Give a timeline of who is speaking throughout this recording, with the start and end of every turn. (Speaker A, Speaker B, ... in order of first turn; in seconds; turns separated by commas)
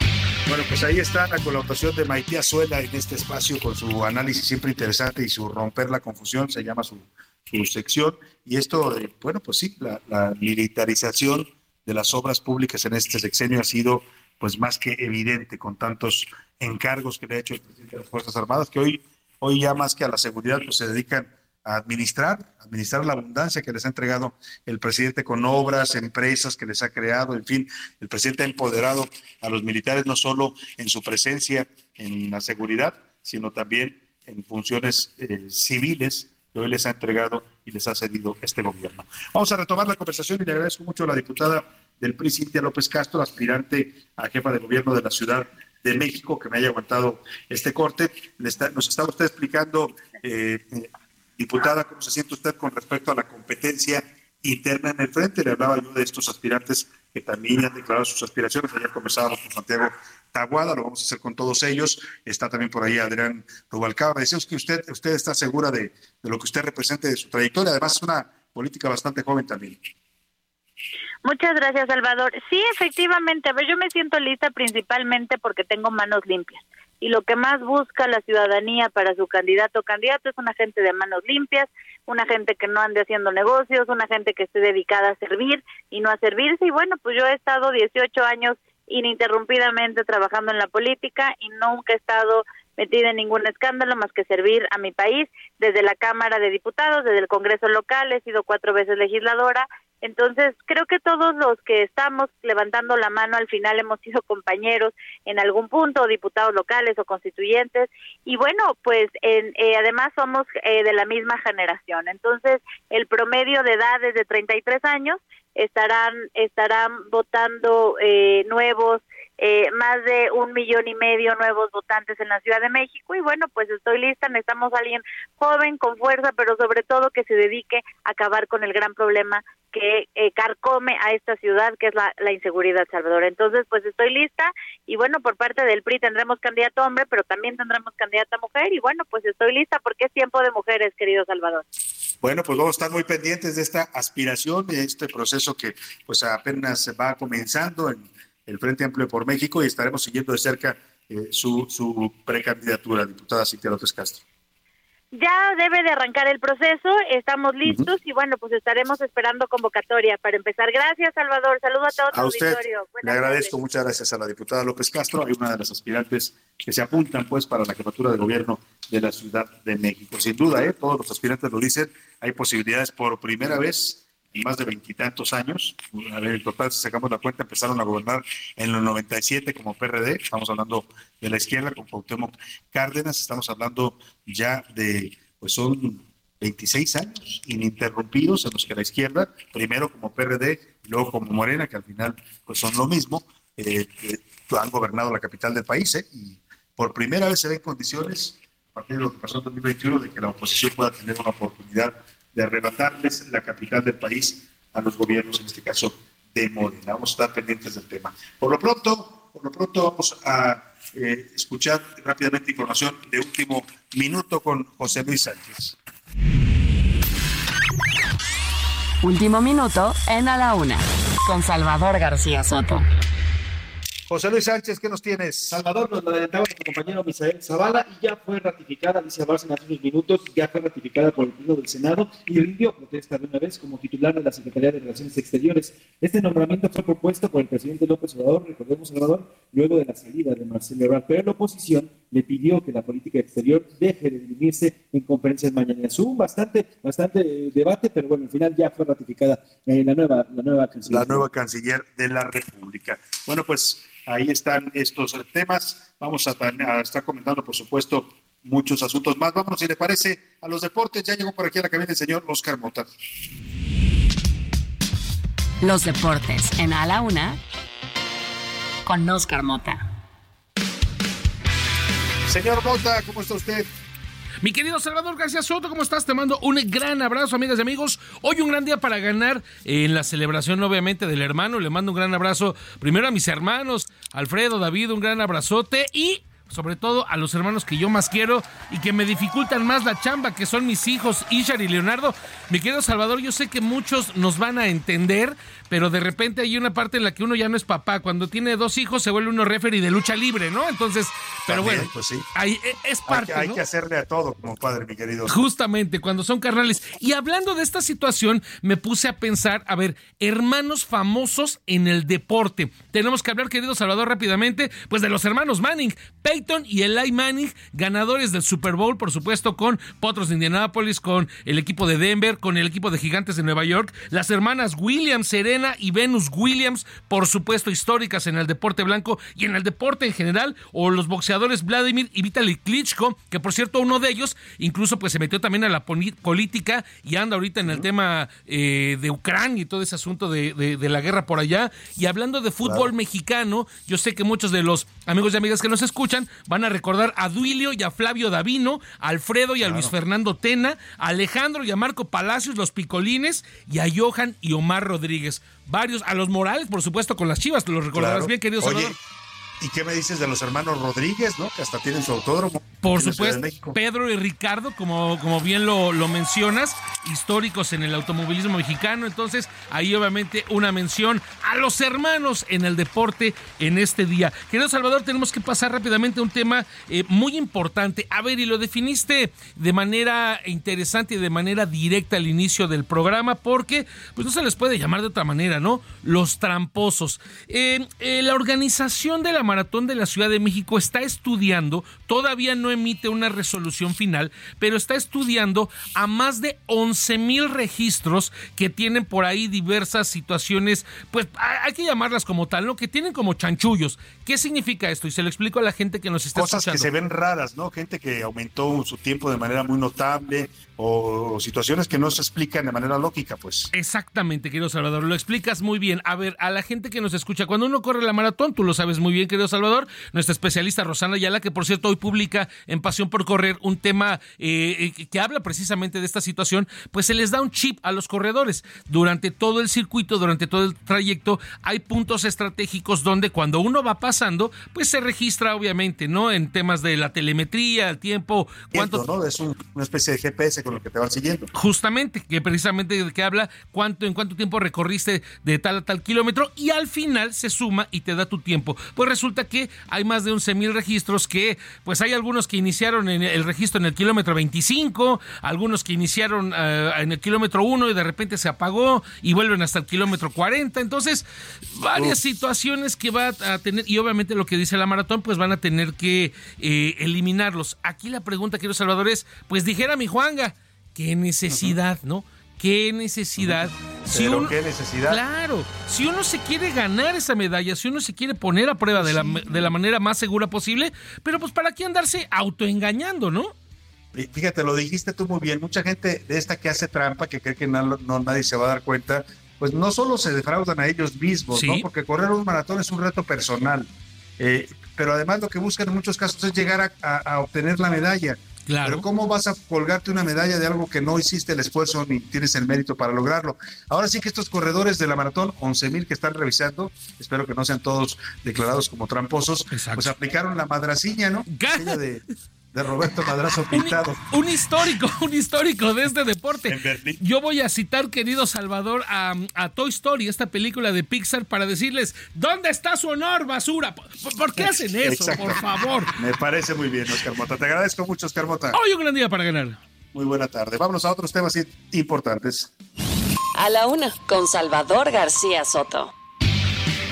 Speaker A: 0.5-69.8, Speaker B: 71.2-141.6, Speaker A: 142.2-154.2, Speaker B: 155.1-163.5, Speaker A: 162.1-215.8, Speaker C: 219.0-222.8, Speaker A: 224.1-225.6, Speaker D: 225.5-251.3, Speaker A: 250.9-262.9, Speaker C: 265.6-267.4, Speaker C: 268.9-269.8, Speaker A: 272.3-273.7, Speaker E: 274.4-303.6, Speaker A: 301.5-302.3, Speaker A: 303.1-305.4, Speaker E: 305.3-358.9, Speaker A: 342.6-342.9, Speaker A: 349.6-349.9, Speaker A: 357.9-358.9, Speaker A: 359.6-363.8, Speaker E: 362.8-406.9, Speaker A: 406.3-413.7, Speaker E: 413.7-439.1, Speaker A: 438.7-441.5, Speaker E: 441.5-474.5, Speaker A: 471.5-471.8, Speaker A: 473.4-475.2, Speaker E: 475.1-483.5, Speaker A: 478.9-479.8, Speaker A: 484.1-493.9, Speaker E: 491.5-491.8, Speaker A: 494.4-514.3, Speaker E: 498.7-499.1, Speaker E: 509.7-510.1, Speaker E: 511.5-512.0, Speaker E: 513.7-526.1, Speaker A: 516.6-517.2, Speaker A: 524.5-525.6, Speaker A: 526.1-528.8, Speaker E: 528.7-529.8, Speaker A: 530.1-532.7, Speaker F: 533.5-536.1